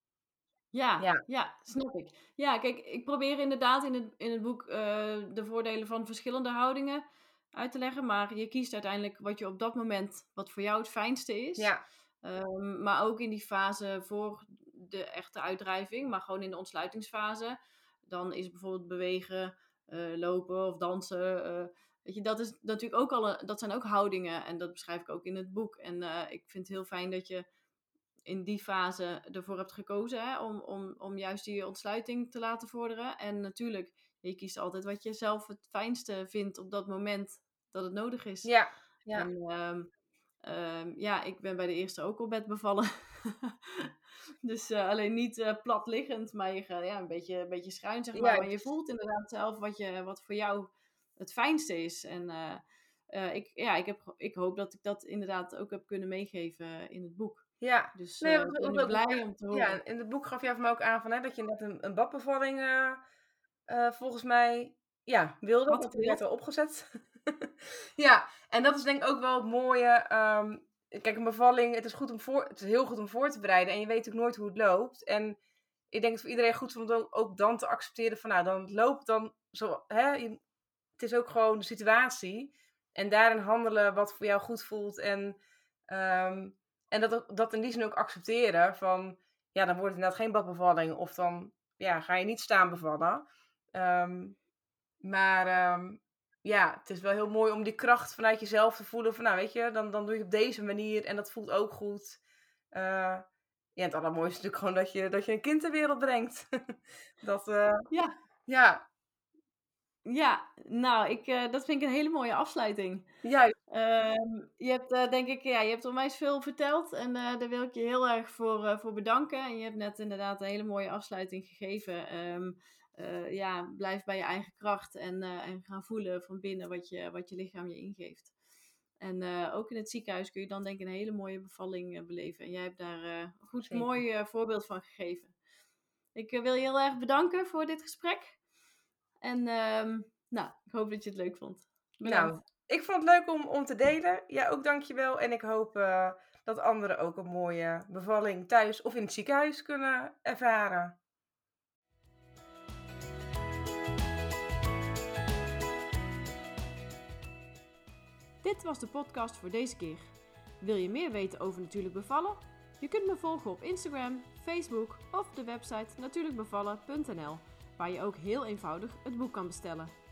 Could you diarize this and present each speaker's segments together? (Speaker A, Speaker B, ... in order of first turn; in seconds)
Speaker A: 0.7-27.5, 28.3-38.5, 39.1-39.9, 40.4-43.9, 44.4-59.8, 65.7-66.2, 110.1-113.1, 113.7-128.3, 129.0-135.3, 136.2-138.4, 139.2-142.4, 158.4-169.9
Speaker B: 38.4-39.3, 48.2-48.5, 57.6-63.0, 63.7-75.4, 75.9-80.4, 81.0-94.4, 95.0-102.2, 102.7-103.2, 103.8-107.9, 108.5-108.8, 113.2-113.5, 133.7-134.0, 142.1-151.0